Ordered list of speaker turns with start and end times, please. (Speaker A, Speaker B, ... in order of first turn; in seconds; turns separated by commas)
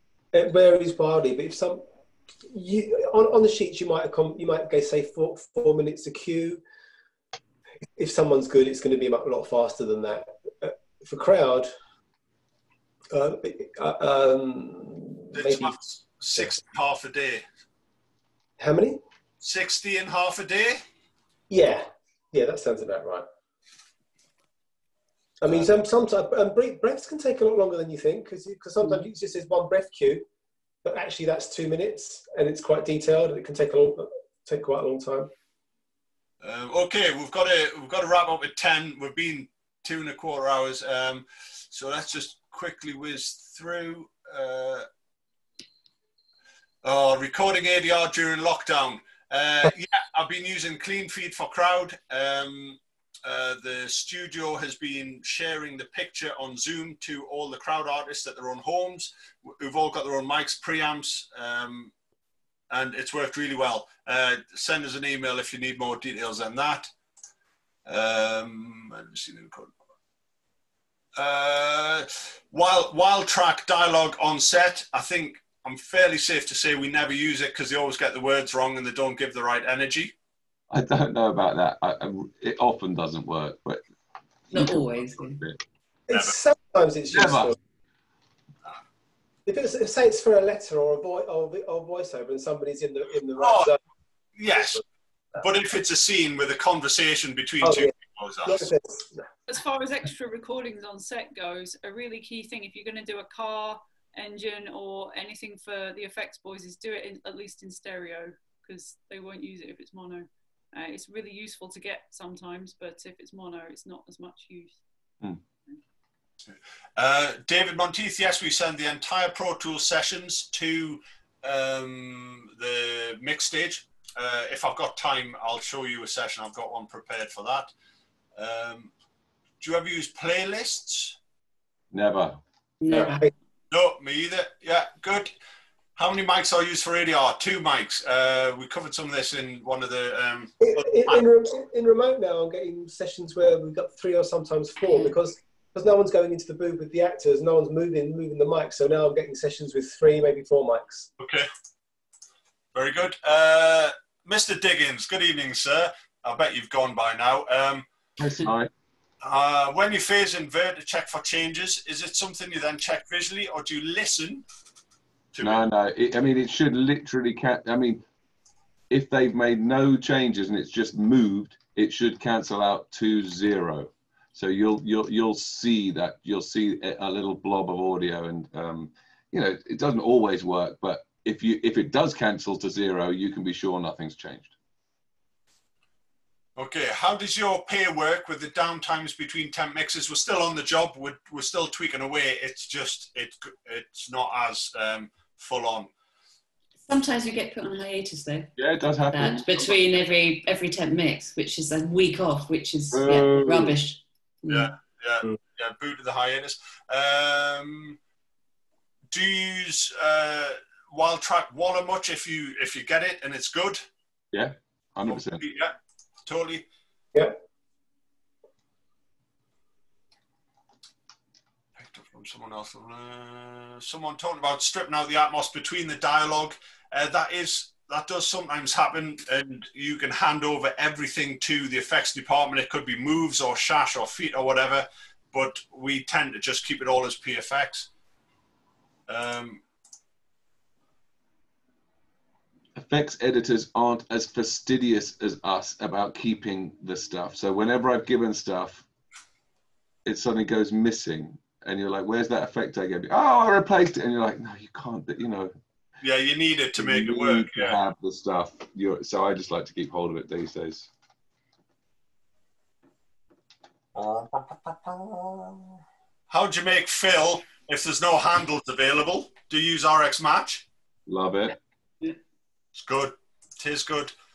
Speaker A: 0.3-1.8, Speaker A: 2.5-6.6, Speaker A: 8.0-11.7, Speaker A: 13.1-15.7, Speaker B: 15.3-17.4, Speaker A: 18.6-19.0, Speaker B: 19.4-20.8, Speaker A: 21.5-23.2, Speaker A: 25.4-30.2, Speaker A: 30.8-35.3, Speaker B: 36.4-44.9, Speaker B: 46.8-61.9, Speaker B: 62.7-66.9, Speaker B: 67.8-69.7, Speaker B: 71.2-80.1, Speaker C: 80.7-83.8, Speaker C: 84.5-85.6, Speaker D: 84.5-85.4, Speaker A: 86.1-87.5, Speaker B: 86.1-86.4, Speaker C: 87.1-87.5, Speaker A: 89.5-93.8, Speaker B: 93.4-93.7, Speaker B: 94.3-94.8, Speaker B: 95.4-98.7, Speaker A: 97.6-97.9, Speaker A: 98.4-99.2, Speaker E: 99.5-114.7, Speaker B: 117.0-127.7, Speaker B: 128.4-128.9, Speaker B: 129.6-131.2, Speaker C: 131.9-132.4, Speaker D: 132.8-133.3, Speaker A: 132.9-133.2, Speaker B: 133.7-135.3, Speaker B: 135.9-141.3, Speaker A: 140.6-151.1, Speaker D: 144.8-145.1, Speaker B: 151.2-151.5, Speaker B: 152.7-157.8, Speaker C: 158.2-158.7, Speaker B: 159.2-164.4, Speaker B: 165.3-165.6, Speaker C: 165.4-168.0, Speaker C: 168.9-184.5, Speaker B: 186.6-195.9, Speaker D: 196.8-198.5, Speaker C: 198.6-199.9, Speaker D: 199.1-204.7, Speaker C: 202.9-203.8, Speaker B: 204.5-208.0, Speaker B: 209.1-213.8, Speaker C: 214.3-215.4, Speaker B: 215.1-215.7, Speaker B: 216.2-216.6, Speaker B: 221.8-237.9, Speaker B: 239.1-239.6, Speaker C: 242.7-248.8, Speaker C: 250.0-255.5, Speaker B: 256.0-257.8, Speaker C: 256.8-260.9, Speaker B: 263.9-265.6, Speaker B: 266.3-270.6, Speaker C: 271.1-271.6, Speaker B: 272.7-274.1